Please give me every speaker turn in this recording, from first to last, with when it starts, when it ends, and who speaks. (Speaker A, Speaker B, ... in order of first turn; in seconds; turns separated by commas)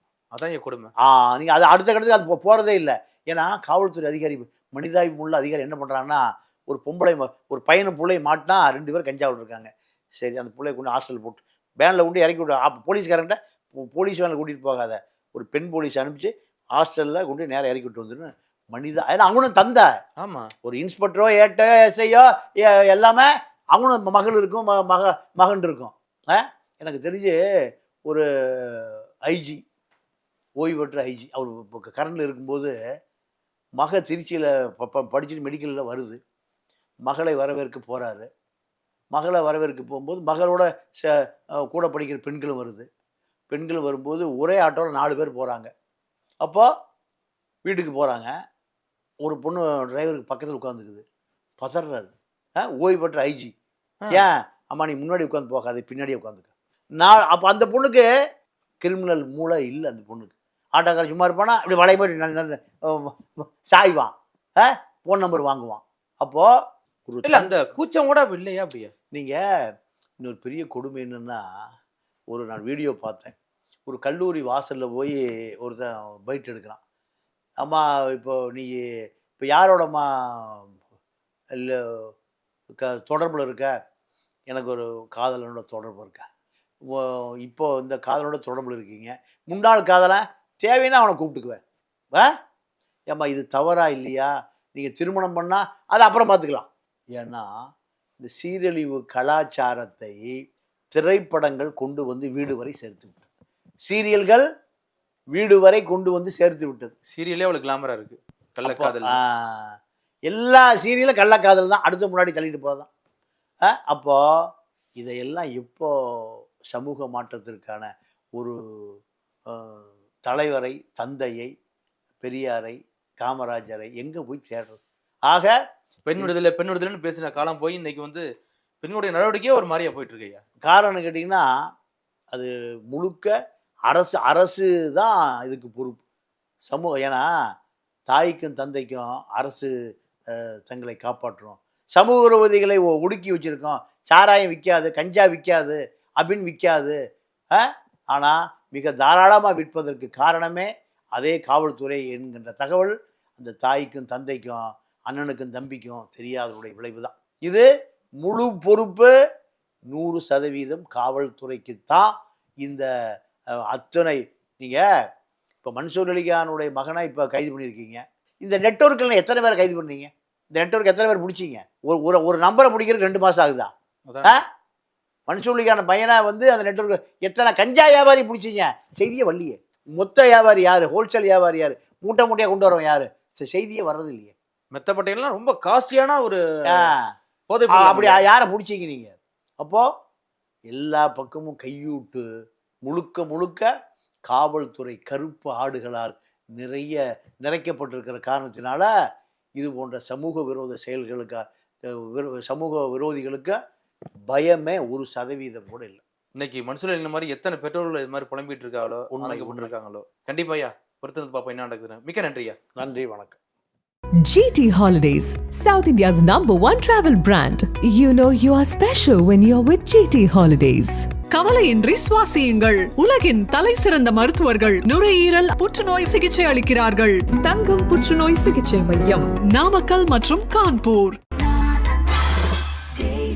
Speaker A: 0.3-0.9, Speaker B: 1.0-19.9, Speaker A: 20.2-20.5, Speaker B: 20.6-27.4, Speaker B: 28.1-29.6, Speaker B: 30.6-32.7, Speaker B: 33.8-36.2, Speaker B: 37.0-38.3, Speaker B: 39.1-42.9, Speaker B: 43.5-45.7, Speaker B: 46.4-46.7, Speaker B: 47.6-48.3, Speaker B: 49.2-51.0, Speaker B: 51.6-53.5, Speaker A: 54.0-54.3, Speaker B: 54.1-58.0, Speaker B: 58.8-66.5, Speaker B: 67.1-67.5, Speaker A: 67.2-68.9, Speaker B: 69.1-69.4, Speaker B: 70.2-71.4, Speaker B: 72.3-73.3, Speaker B: 73.9-76.8, Speaker B: 77.6-78.8, Speaker B: 79.4-80.8, Speaker B: 81.5-82.1, Speaker B: 82.8-83.7, Speaker B: 84.5-86.2, Speaker B: 86.8-91.6, Speaker B: 93.1-97.5, Speaker B: 98.2-100.3, Speaker B: 100.9-103.2, Speaker B: 103.8-104.4, Speaker B: 105.3-106.9, Speaker A: 107.1-109.2, Speaker B: 108.6-109.7, Speaker B: 110.3-112.9, Speaker B: 113.7-114.2, Speaker B: 115.0-119.0, Speaker B: 119.5-121.5, Speaker B: 122.2-125.5, Speaker A: 126.0-128.2, Speaker A: 128.8-130.4, Speaker B: 130.6-131.5, Speaker B: 132.3-133.3, Speaker B: 133.9-136.0, Speaker B: 136.7-137.2, Speaker B: 138.1-139.7, Speaker B: 140.3-146.9, Speaker B: 147.5-157.7, Speaker B: 158.2-159.1, Speaker B: 159.9-162.1, Speaker B: 163.6-164.8, Speaker B: 165.6-173.7, Speaker A: 174.1-174.3, Speaker B: 175.3-184.3, Speaker A: 184.7-186.9, Speaker B: 186.7-187.1, Speaker A: 187.5-188.2, Speaker B: 187.7-189.8, Speaker B: 190.7-192.2, Speaker B: 192.8-193.7, Speaker B: 194.3-198.9, Speaker B: 199.6-203.6, Speaker B: 204.3-206.0, Speaker A: 206.3-212.6, Speaker B: 209.1-209.7, Speaker B: 212.8-213.4, Speaker C: 214.2-221.1, Speaker D: 221.3-227.3, Speaker C: 227.4-229.3, Speaker D: 229.1-231.2